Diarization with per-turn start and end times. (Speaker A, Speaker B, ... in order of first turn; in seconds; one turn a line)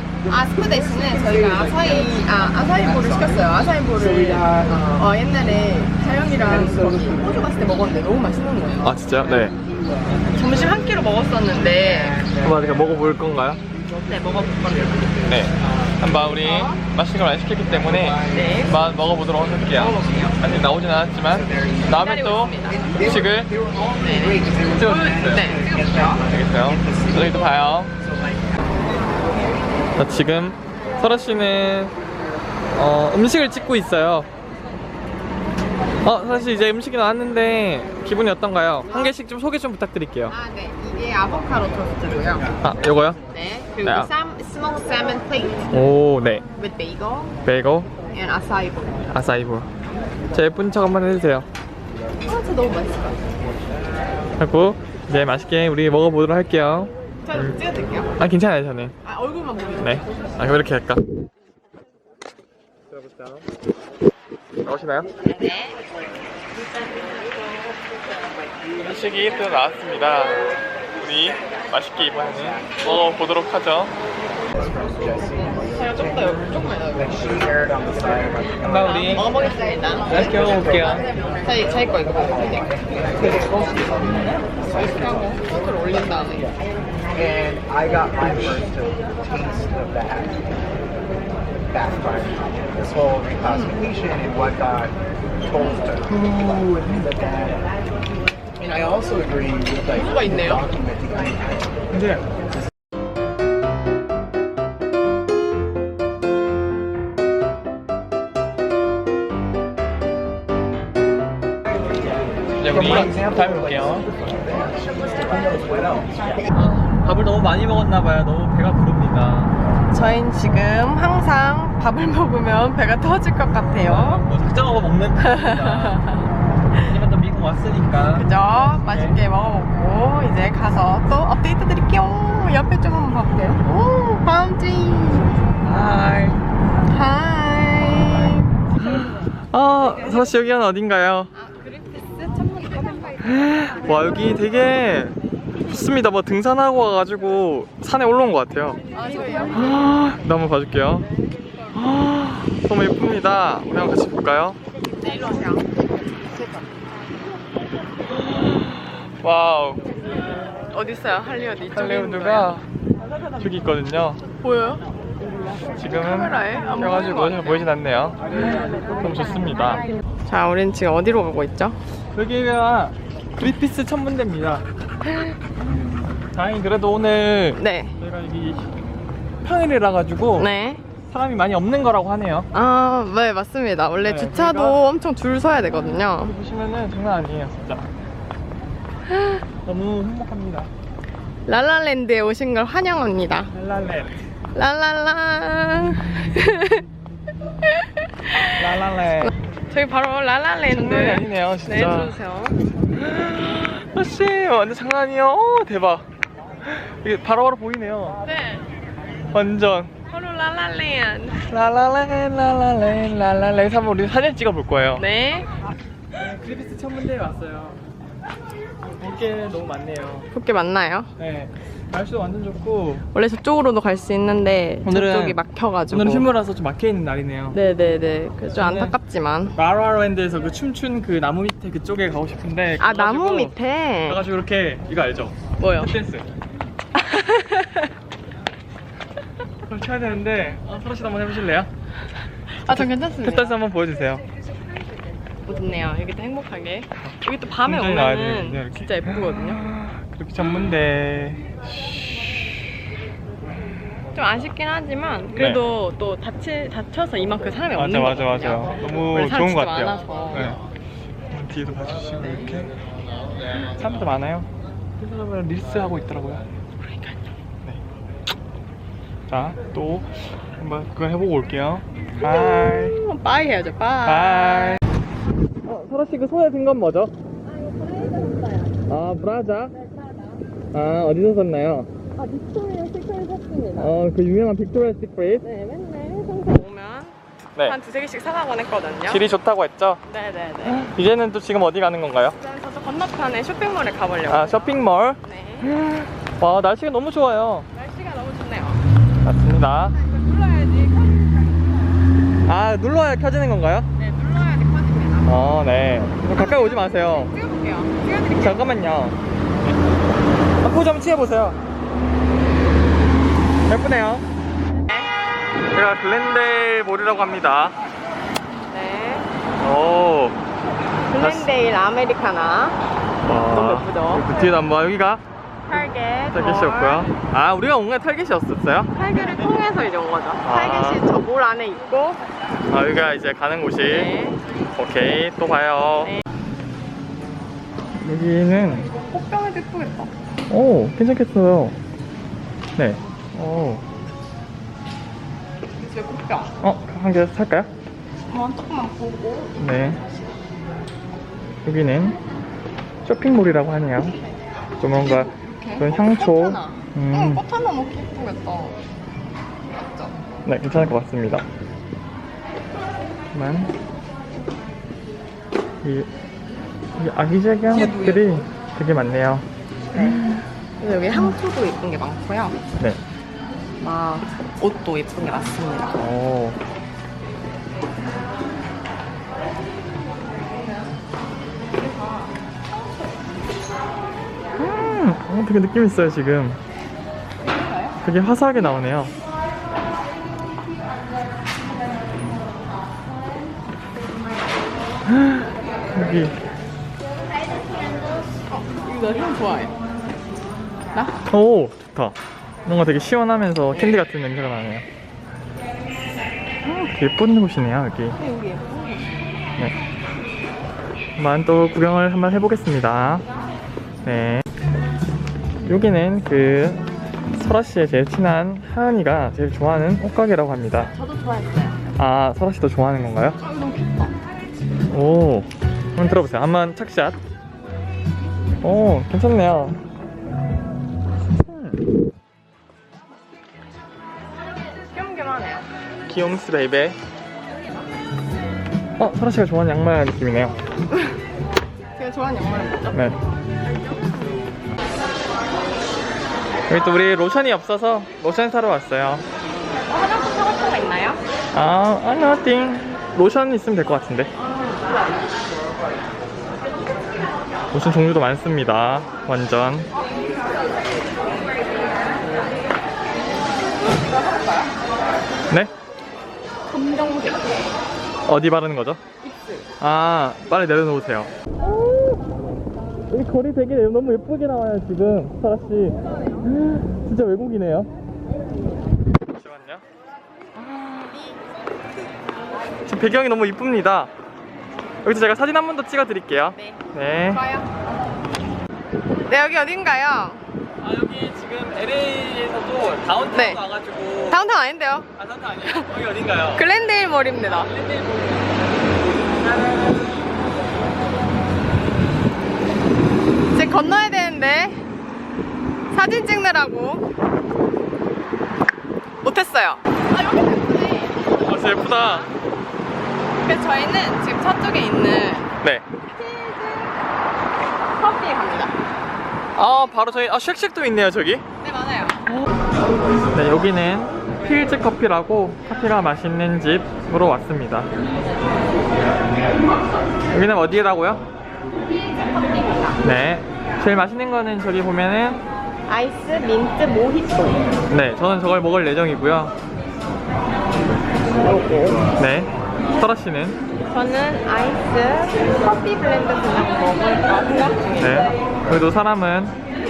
Speaker A: 0.3-9.0
Speaker B: 1.1-2.1
Speaker B: 2.9-3.3
Speaker B: 4.1-4.9
Speaker B: 6.6-7.1
Speaker C: 8.8-9.6
Speaker A: 10.3-12.2
Speaker C: 12.4-13.6
Speaker A: 14.1-15.2
Speaker C: 15.2-23.5
Speaker A: 16.3-16.8
Speaker A: 18.3-18.9
Speaker A: 19.7-20.4
Speaker A: 21.9-23.3
Speaker B: 23.8-24.7
Speaker A: 23.9-26.2
Speaker C: 24.7-25.5
Speaker B: 25.4-26.2
Speaker C: 26.2-27.9
Speaker C: 29.9-31.9
Speaker C: 32.7-34.3
Speaker C: 36.0-40.3
Speaker A: 40.3-42.5
Speaker C: 42.6-43.2
Speaker A: 43.3-45.7
Speaker C: 43.8-44.1
Speaker C: 45.7-46.4
Speaker A: 46.5-47.4
Speaker C: 47.4-47.9
Speaker A: 48.1-49.0
Speaker C: 49.1-49.7
Speaker C: 50.3-51.5
Speaker A: 52.2-53.2
Speaker C: 54.4-57.6
Speaker A: 57.2-58.1
Speaker C: 58.2-58.9
Speaker A: 59.0-60.1
Speaker C: 59.8-61.0
Speaker C: 62.9-63.5
Speaker C: 64.6-65.1
Speaker A: 65.2-65.8
Speaker C: 68.8-73.9
Speaker B: 74.6-76.3
Speaker A: 75.4-77.7
Speaker B: 77.0-78.7
Speaker C: 78.6-79.3
Speaker A: 78.7-83.8
Speaker C: 80.0-81.1
Speaker B: 82.8-83.9
Speaker A: 84.6-86.5
Speaker B: 87.2-90.3
Speaker C: 88.2-88.7
Speaker B: 91.7-94.9
Speaker A: 93.4-93.9
Speaker A: 95.5-96.0
Speaker B: 95.6-96.0
Speaker C: 96.0-97.2
Speaker B: 97.2-97.5
Speaker B: 98.6-101.5
Speaker A: 99.8-100.8
Speaker C: 101.9-102.2
Speaker C: 112.6-114.1
Speaker C: 116.5-119.5
Speaker A: 119.9-124.2
Speaker C: 123.7-129.2
Speaker A: 125.2-126.8
Speaker A: 128.1-135.5
Speaker C: 135.6-136.4
Speaker A: 136.9-138.6
Speaker C: 138.8-141.3
Speaker A: 141.3-143.3
Speaker C: 143.2-148.8
Speaker A: 148.9-149.8
Speaker C: 149.5-151.1
Speaker C: 151.7-154.6
Speaker A: 155.0-155.6
Speaker C: 158.1-159.9
Speaker A: 160.7-162.5
Speaker C: 161.7-162.7
Speaker C: 163.2-164.2
Speaker A: 164.4-164.8
Speaker C: 165.7-169.9
Speaker A: 165.8-167.7
Speaker A: 170.2-171.8
Speaker C: 172.1-174.6
Speaker C: 176.3-178.7
Speaker A: 177.6-177.9
Speaker C: 179.4-180.5
Speaker A: 180.3-180.8
Speaker C: 181.1-182.5
Speaker A: 182.5-186.3
Speaker C: 184.0-184.8
Speaker C: 185.9-187.8
Speaker A: 189.1-189.4
Speaker C: 189.6-190.7
Speaker A: 191.4-193.5
Speaker C: 193.5-194.2
Speaker A: 194.5-196.8
Speaker A: 197.6-198.7
Speaker C: 198.5-199.3
Speaker A: 199.2-202.6
Speaker C: 200.7-202.2
Speaker C: 202.9-206.0
Speaker C: 206.6-208.2
Speaker A: 208.2-208.7
Speaker C: 209.3-209.9
Speaker A: 210.1-211.4
Speaker C: 211.5-215.0
Speaker A: 215.0-215.5
Speaker C: 216.1-217.8
Speaker C: 219.0-220.3
Speaker A: 220.3-221.1
Speaker C: 221.2-223.0
Speaker A: 223.1-226.3
Speaker C: 224.8-225.4
Speaker C: 225.9-227.6
Speaker A: 227.5-229.6
Speaker C: 228.6-228.9
Speaker C: 229.6-233.6
Speaker A: 232.8-234.2
Speaker C: 234.1-236.2
Speaker A: 235.6-235.9
Speaker A: 236.9-237.9
Speaker C: 239.7-241.7
Speaker A: 242.5-243.5
Speaker C: 242.7-244.2
Speaker A: 245.4-249.6
Speaker C: 247.6-251.6
Speaker A: 254.1-260.6
Speaker C: 255.3-255.6
Speaker C: 257.8-260.6
Speaker C: 261.3-262.7
Speaker C: 263.6-264.5
Speaker C: 265.0-266.4
Speaker A: 266.8-267.2
Speaker C: 269.3-272.9
Speaker A: 272.2-274.8
Speaker C: 274.0-274.8
Speaker C: 275.6-277.1
Speaker A: 277.5-278.8
Speaker C: 278.9-279.7
Speaker A: 279.8-280.2
Speaker C: 280.7-281.9
Speaker A: 282.1-283.9
Speaker C: 283.8-285.4
Speaker A: 285.4-289.2
Speaker C: 289.1-290.0
Speaker A: 290.1-290.9
Speaker C: 290.6-292.4
Speaker A: 292.3-295.7
Speaker C: 294.3-297.7
Speaker A: 297.7-298.8
Speaker C: 299.2-300.0
Speaker A: 299.9-301.9
Speaker C: 302.4-303.9
Speaker A: 304.0-305.4
Speaker C: 305.2-307.3
Speaker A: 306.3-308.7
Speaker C: 308.4-309.2
Speaker C: 310.6-311.6
Speaker C: 313.6-314.2
Speaker C: 315.7-317.8
Speaker A: 318.7-319.3
Speaker C: 319.6-320.4
Speaker A: 321.1-322.8
Speaker C: 321.2-321.5
Speaker C: 323.2-325.2
Speaker A: 323.5-324.3
Speaker A: 325.7-327.1
Speaker C: 326.3-328.9
Speaker A: 328.9-332.3
Speaker C: 330.4-331.0
Speaker C: 332.7-334.1
Speaker A: 333.8-334.4
Speaker C: 334.7-336.1
Speaker C: 337.9-338.9
Speaker A: 338.9-340.1
Speaker C: 340.5-341.8
Speaker C: 342.8-343.8
Speaker A: 345.8-346.5
Speaker C: 346.6-347.7
Speaker A: 348.3-349.9
Speaker C: 349.6-350.0
Speaker C: 351.6-352.2
Speaker C: 353.0-354.2
Speaker C: 354.8-357.4
Speaker A: 355.2-358.8
Speaker A: 359.7-360.1
Speaker C: 360.4-361.4
Speaker C: 363.3-363.7
Speaker C: 365.8-366.1
Speaker C: 366.9-370.4
Speaker A: 367.7-368.4
Speaker A: 369.9-370.3
Speaker A: 370.8-372.6
Speaker A: 373.8-376.0
Speaker C: 375.9-376.6
Speaker C: 384.6-386.6
Speaker C: 388.0-389.1
Speaker C: 395.0-396.4
Speaker A: 398.5-399.8
Speaker C: 401.3-402.1
Speaker C: 402.6-404.9
Speaker A: 403.7-404.0
Speaker C: 406.6-408.2
Speaker A: 408.2-409.1
Speaker C: 411.2-413.3
Speaker C: 414.0-414.4
Speaker C: 415.6-420.9
Speaker A: 420.8-421.8
Speaker C: 422.0-423.4
Speaker A: 423.4-424.1
Speaker C: 424.9-427.2
Speaker C: 428.6-429.8
Speaker C: 431.3-431.9
Speaker A: 434.7-435.7
Speaker C: 436.1-437.0
Speaker C: 439.0-440.5
Speaker A: 441.9-443.0
Speaker C: 442.9-443.2
Speaker A: 443.9-444.4
Speaker C: 446.7-449.2
Speaker A: 449.9-451.2
Speaker C: 451.5-454.3
Speaker A: 454.4-454.8
Speaker C: 457.7-459.9
Speaker A: 463.9-464.7
Speaker A: 466.7-467.7
Speaker C: 468.2-469.0
Speaker A: 469.2-469.7
Speaker C: 469.8-472.2
Speaker C: 473.1-477.9
Speaker C: 479.3-479.8
Speaker C: 480.6-481.2
Speaker A: 481.1-481.5
Speaker C: 482.9-484.1
Speaker C: 485.0-487.4
Speaker A: 486.5-487.7
Speaker A: 489.3-490.4
Speaker C: 490.8-494.4
Speaker A: 493.3-493.6
Speaker A: 494.3-495.1
Speaker C: 495.2-496.7
Speaker A: 496.5-497.7
Speaker C: 497.4-500.2
Speaker A: 503.5-504.8
Speaker A: 505.9-507.0
Speaker A: 509.2-512.3
Speaker C: 511.3-512.3
Speaker A: 513.4-515.5
Speaker A: 516.1-517.0
Speaker A: 517.9-518.8
Speaker C: 519.5-521.4
Speaker A: 521.6-522.2
Speaker C: 523.3-527.9
Speaker C: 530.3-531.2
Speaker A: 532.3-533.0
Speaker C: 533.0-535.4
Speaker A: 535.9-537.6
Speaker C: 537.9-539.5
Speaker A: 541.4-542.1
Speaker C: 542.2-543.6
Speaker A: 543.9-548.3
Speaker C: 548.0-549.5